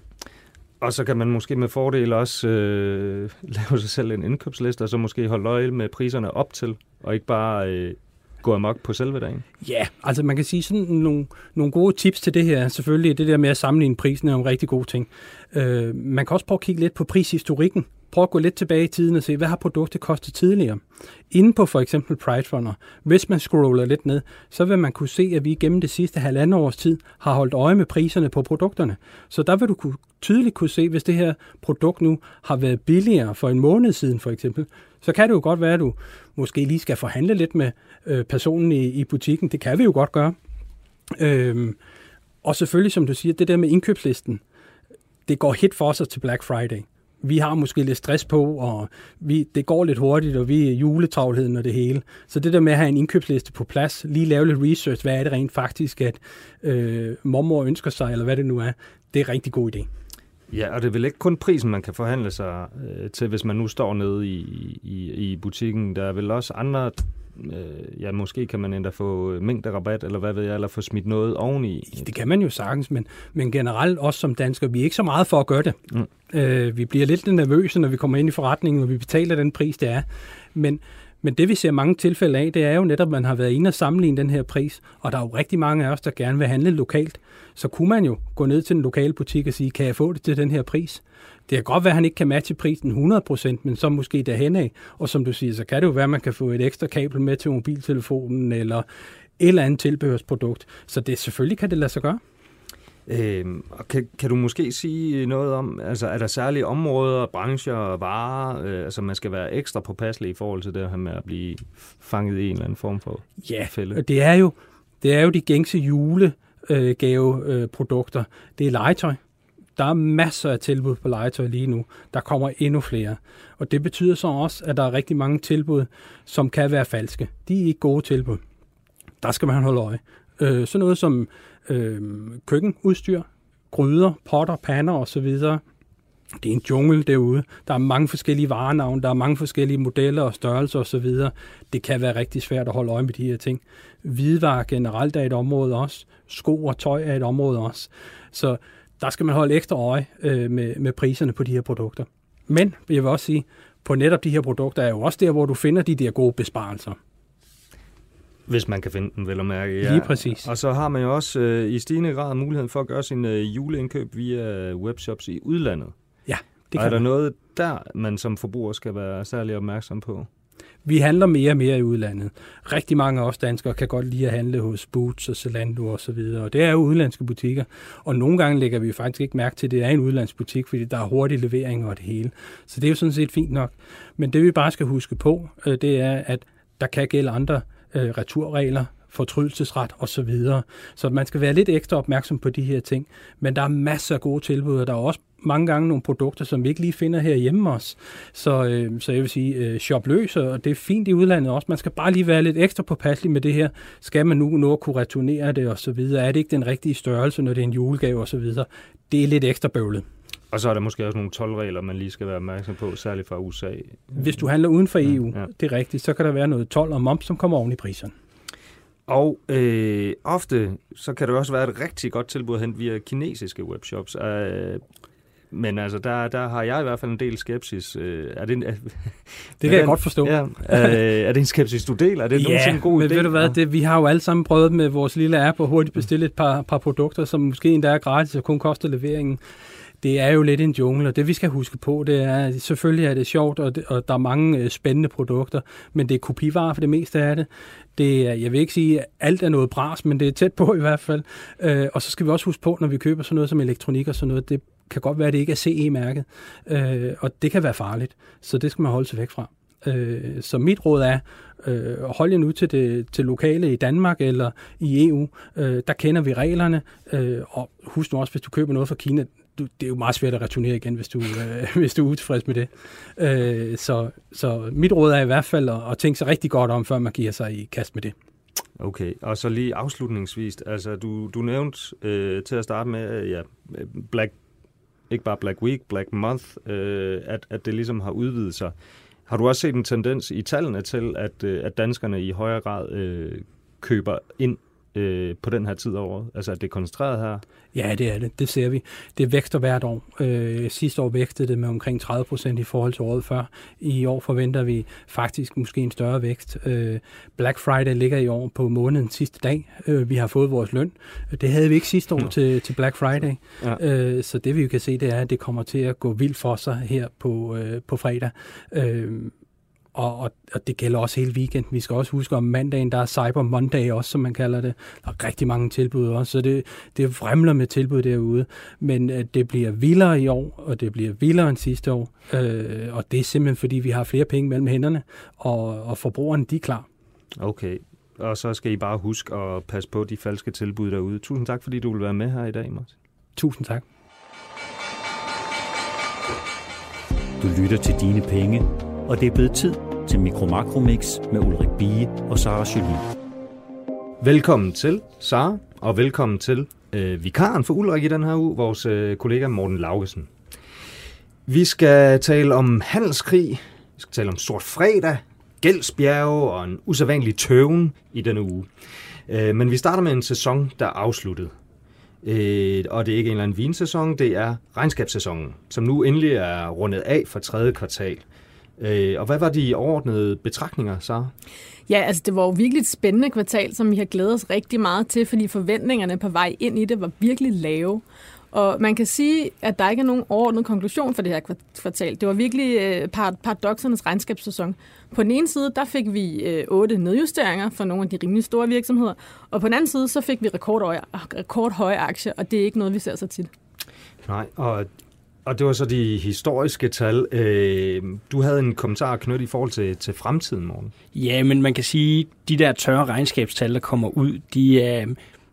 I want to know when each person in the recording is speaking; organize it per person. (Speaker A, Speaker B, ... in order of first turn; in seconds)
Speaker A: 0.8-9.4, 60.5-72.1, 103.1-114.0, 158.5-165.9, 166.7-170.3, 210.5-214.3, 219.1-224.8, 225.5-233.6, 278.8-284.3, 285.1-288.7, 289.3-297.4, 337.4-342.9, 354.2-360.3, 361.4-368.7, 369.3-371.5, 372.2-378.2, 378.8-381.3, 404.2-404.9, 405.4-410.9
Speaker B: 9.6-40.4, 41.1-41.8, 42.4-44.4, 45.3-59.9, 71.9-75.8, 76.3-98.8, 99.4-102.2, 113.4-119.2, 119.8-128.4, 129.2-135.6, 136.4-157.0, 159.8-160.5, 166.3-167.0, 170.8-210.0, 214.2-218.1, 229.6-231.0, 232.3-239.4, 240.0-278.1, 297.7-319.3, 319.9-336.9, 343.4-343.8
Speaker C: 347.4-353.1
Speaker D: 381.9-403.5
Speaker E: 411.1-415.2